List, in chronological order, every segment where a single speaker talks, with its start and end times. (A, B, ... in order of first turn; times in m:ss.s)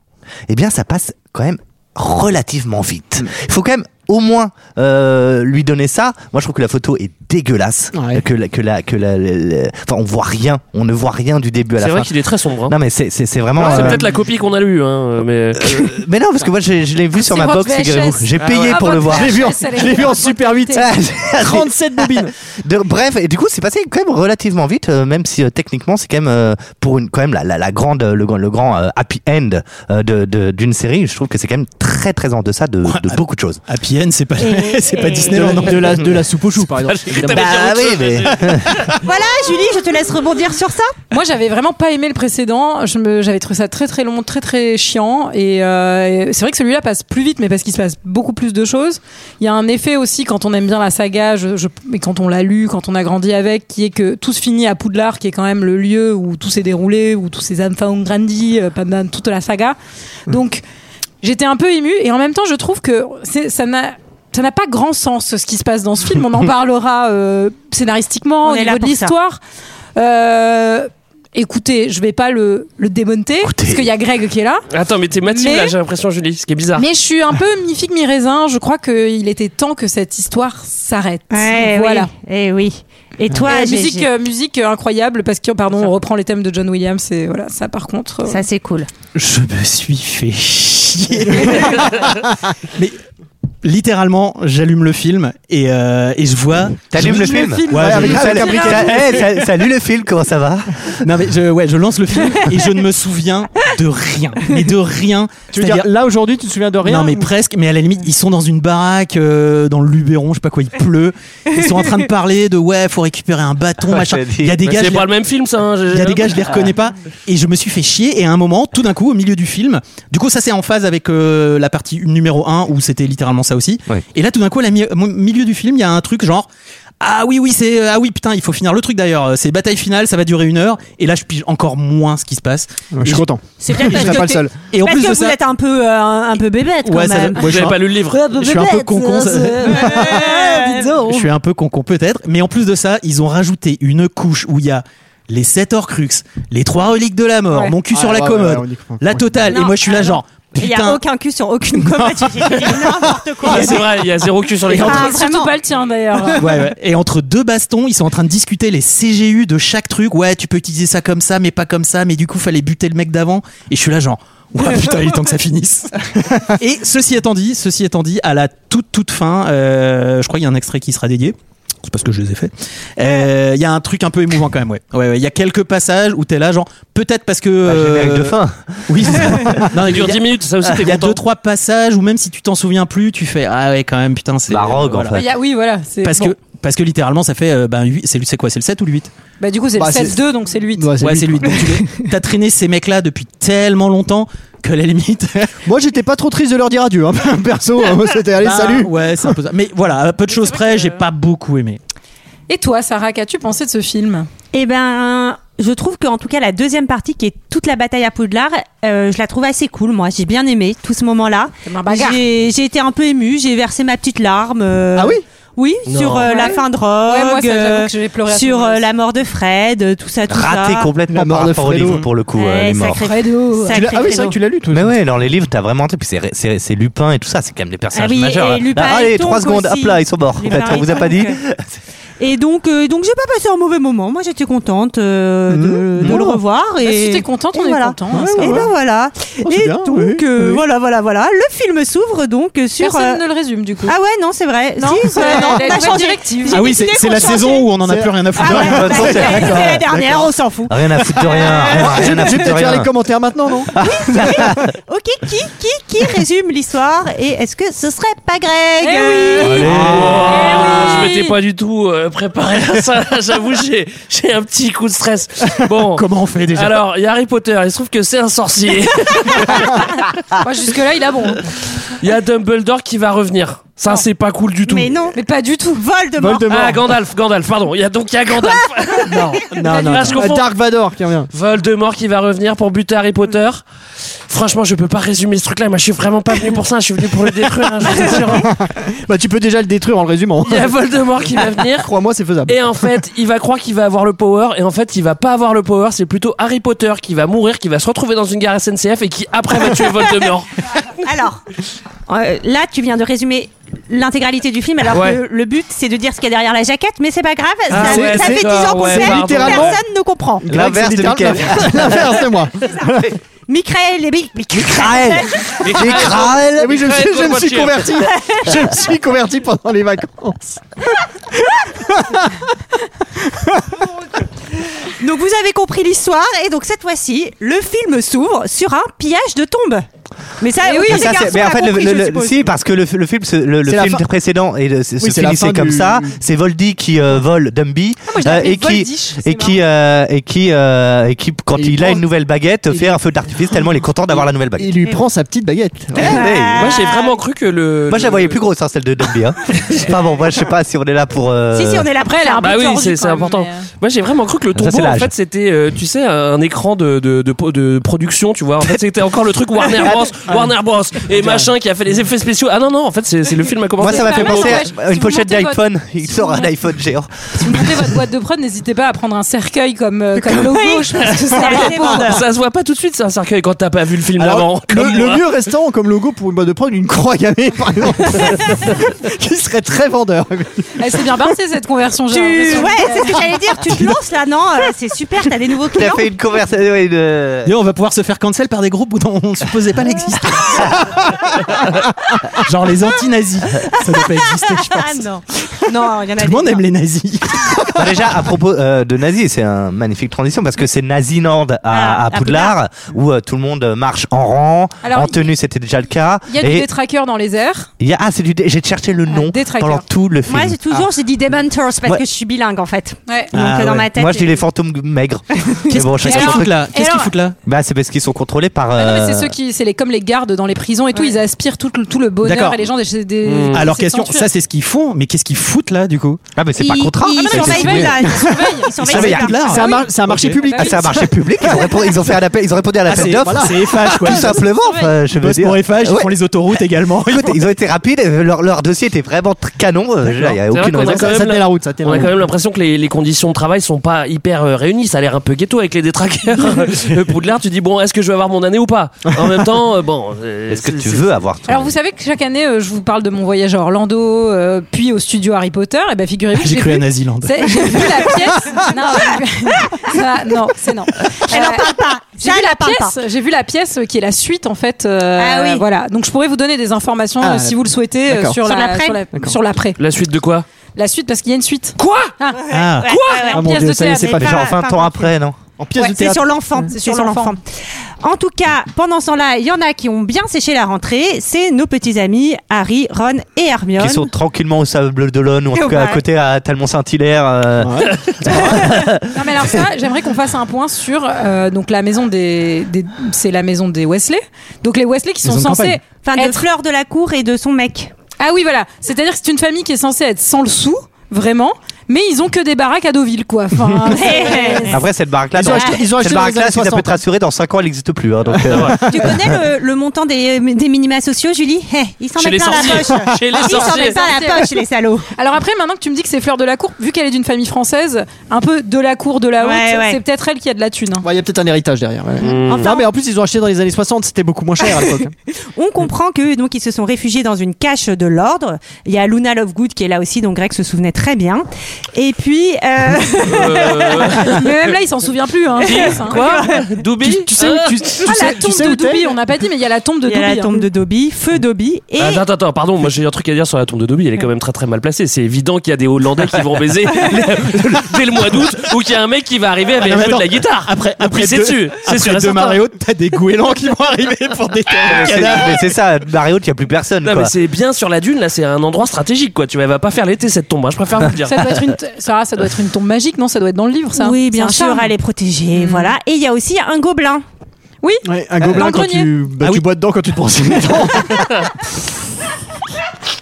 0:00.5-0:12.1 A
0:07.9-0:08.2 B
0:11.8-0:12.8 C
0:12.7-0:14.1 A
0:13.6-0:16.0 C
0:13.6-0:14.0 B
0:15.6-0:19.6 A
0:17.2-0:20.9 D
0:18.4-0:18.9 C
0:19.1-0:22.3 B
0:20.7-0:33.6 A
0:32.8-0:36.2 E
0:34.4-0:35.6 F
0:35.3-0:37.5 B
0:36.9-0:38.9 C
0:37.1-0:38.8 A
0:39.0-0:40.9 F
0:41.1-0:59.8 D
1:00.3-1:00.6 D
1:01.2-1:09.4 D
1:08.4-1:09.1 F
1:10.0-1:14.6 D
1:13.4-1:13.8 A
1:14.7-1:16.8 C
1:15.3-1:15.7 D
1:16.8-1:22.1 D
1:21.3-1:24.1 F
1:23.5-1:28.4 D
1:28.3-1:28.9 F
1:29.1-1:32.1 E
1:31.5-1:31.8 B
1:33.6-1:38.6 E
1:36.9-1:40.7 A
1:37.0-1:39.1 D
1:37.7-1:39.3 B
1:41.0-1:45.9 E
1:45.5-1:47.3 B
1:46.8-1:55.1 E
1:53.9-1:54.6 A
1:54.6-1:56.7 C
1:55.9-2:06.5 E
2:07.0-2:15.4 E
2:12.9-2:14.7 B
2:13.6-2:17.5 F
2:16.8-2:17.6 E
2:17.4-2:18.5 C
2:17.4-2:17.8 B
2:18.2-2:19.9 E
2:18.4-2:20.2 B
2:19.6-2:21.1 F
2:20.6-2:21.0 D
2:21.0-2:31.0 E
2:27.5-2:27.7 D
2:27.8-2:29.5 B
2:29.5-2:33.8 F
2:32.4-2:33.0 B
2:33.4-2:35.1 C
2:33.5-2:33.9 E
2:34.7-2:35.5 F
2:34.8-2:36.5 D
2:36.4-2:45.9 E
2:46.6-3:05.2 E
2:57.7-2:59.6 A
2:59.8-3:01.2 C
3:04.5-3:05.2 A
3:05.1-3:06.3 D
3:06.0-3:09.1 E
3:09.4-3:10.8 D
3:09.8-3:10.2 B
3:10.7-3:12.1 B
3:11.0-3:15.6 E
3:15.7-3:18.9 B
3:18.4-3:21.8 E
3:22.5-3:24.3 D
3:24.5-3:40.9 F
3:31.7-3:32.2 D
3:34.9-3:35.2 B
3:35.8-3:36.4 C
3:36.3-3:38.8 D
3:40.3-3:43.1 A
3:41.1-3:42.1 B
3:42.4-3:44.4 F
3:43.1-3:43.8 D
3:43.7-3:44.9 B
3:44.7-3:51.6 A
3:47.9-3:51.4 F
3:52.2-4:03.2 F
3:55.5-3:56.3 B
3:56.8-3:58.7 D
3:58.1-3:58.7 B
3:59.4-4:00.6 B
4:02.8-4:03.9 D
4:03.8-4:07.7 F
4:04.8-4:06.7 D
4:05.3-4:05.6 B
4:06.5-4:09.4 E
4:07.8-4:10.3 B
4:08.3-4:12.4 F
4:08.4-4:09.7 A
4:10.7-4:12.9 A
4:11.4-4:13.7 B
4:13.7-4:14.6 A
4:13.8-4:19.7 F
4:18.8-4:21.3 D
4:19.4-4:29.9 C
4:19.6-4:20.6 E
4:25.9-4:26.8 E
4:30.4-4:31.4 D
4:32.0-4:34.9 C
4:34.6-4:35.2 F
4:35.2-4:35.8 D
4:35.7-4:36.8 F
4:36.2-4:36.8 B
4:36.5-4:40.5 C
4:39.1-4:41.3 B
4:41.3-4:43.6 C
4:44.3-4:48.5 C
4:47.8-4:50.7 B
4:50.4-4:51.9 C
4:51.5-4:52.6 B
4:52.5-5:00.5 C
5:01.0-5:01.4 F
5:02.1-5:10.4 F
5:04.9-5:05.2 C
5:07.7-5:09.8 C
5:07.7-5:09.8 B
5:10.4-5:13.1 B
5:10.5-5:12.1 A
5:11.3-5:11.6 F
5:12.6-5:12.9 F
5:13.5-5:15.8 F
5:14.5-5:16.8 A
5:15.6-5:18.1 C
5:16.3-5:20.6 B
5:21.4-5:22.5 B
5:23.2-5:23.8 B
5:24.9-5:29.9 F
5:30.4-5:32.5 F
5:30.6-5:31.1 D
5:30.8-5:44.7 A
5:33.7-5:34.0 B
5:35.0-5:36.2 B
5:38.1-5:39.6 D
5:41.6-5:42.0 B
5:42.7-5:43.0 B
5:44.1-5:46.2 B
5:45.9-5:46.8 A
5:46.0-5:47.2 F
5:46.6-5:48.4 C
5:47.9-5:51.9 A
5:51.5-5:52.6 F
5:52.0-5:53.7 D
5:52.4-6:04.6 C
5:54.6-5:55.1 A
6:03.8-6:07.9 A
6:03.8-6:06.5 D
6:07.4-6:12.1 D
6:10.3-6:12.2 F
6:11.1-6:15.3 C
6:14.2-6:20.7 B
6:20.8-6:23.2 D
6:22.1-6:26.1 F
6:25.7-6:27.5 A
6:27.4-6:30.8 E
6:32.4-6:35.1 E
6:34.4-6:36.6 F
6:36.1-6:37.8 E
6:37.8-6:46.7 A
6:41.7-6:42.6 F
6:44.8-6:45.2 D
6:46.3-6:47.7 D
6:47.8-6:50.6 A
6:49.1-6:49.8 D
6:50.3-6:54.4 F
6:53.3-6:53.9 E
6:53.9-6:56.6 A
6:55.7-6:57.4 E
6:56.0-6:57.1 D
6:57.4-6:59.3 A
6:58.8-7:04.3 D
7:02.2-7:02.6 E
7:03.3-7:03.6 C
7:03.5-7:06.2 E
7:06.4-7:08.1 A
7:06.6-7:09.6 F
7:07.3-7:08.7 D
7:07.3-7:07.9 E
7:08.8-7:10.4 E
7:08.8-7:09.3 A
7:09.3-7:12.0 B
7:09.4-7:09.8 D
7:10.5-7:10.8 D
7:10.5-7:16.1 A
7:12.9-7:14.4 E
7:12.9-7:14.2 B
7:14.6-7:14.9 D
7:15.2-7:17.4 E
7:17.0-7:21.2 A
7:20.5-7:31.1 C
7:20.7-7:22.2 B
7:30.5-7:31.7 A
7:31.5-7:49.8 D
7:36.3-7:37.9 E
7:41.2-7:42.9 F
7:45.2-7:45.6 F
7:47.2-7:48.4 B
7:48.4-7:49.0 F
7:49.8-7:50.4 C
7:50.8-7:54.2 D
7:51.8-7:52.1 C
7:52.3-7:55.1 F
7:52.5-7:53.1 E
7:53.3-7:54.5 B
7:54.1-7:55.4 A
7:55.6-7:56.6 B
7:55.8-8:04.1 F
7:56.7-7:57.4 D
8:03.8-8:09.6 A
8:05.5-8:06.0 F
8:07.6-8:07.9 B
8:09.1-8:16.4 D
8:15.2-8:15.7 E
8:16.0-8:17.9 F
8:18.2-8:24.8 D
8:23.9-8:24.8 F
8:24.7-8:29.1 A
8:25.3-8:27.0 B
8:25.4-8:25.8 F
8:28.4-8:29.1 B
8:28.5-8:28.8 C
8:28.9-8:35.1 F
8:32.2-8:34.1 C
8:33.4-8:34.6 D
8:35.2-8:41.1 D
8:39.4-8:40.0 F
8:41.0-8:45.1 B
8:42.2-8:42.7 C
8:42.4-8:42.9 F
8:45.6-8:54.4 F
8:53.2-8:54.5 C
8:54.3-8:56.2 D
8:55.6-8:56.7 F
8:55.6-8:58.0 C
8:57.0-8:59.2 B
8:58.0-9:00.7 D
9:00.1-9:02.2 F
9:02.0-9:12.6 C
9:09.8-9:15.6 E
9:14.9-9:17.3 A
9:17.0-9:21.6 C
9:21.2-9:24.9 D
9:24.0-9:27.2 F
9:25.6-9:25.9 D
9:28.0-9:31.5 B
9:28.5-9:29.1 D
9:29.4-9:29.6 E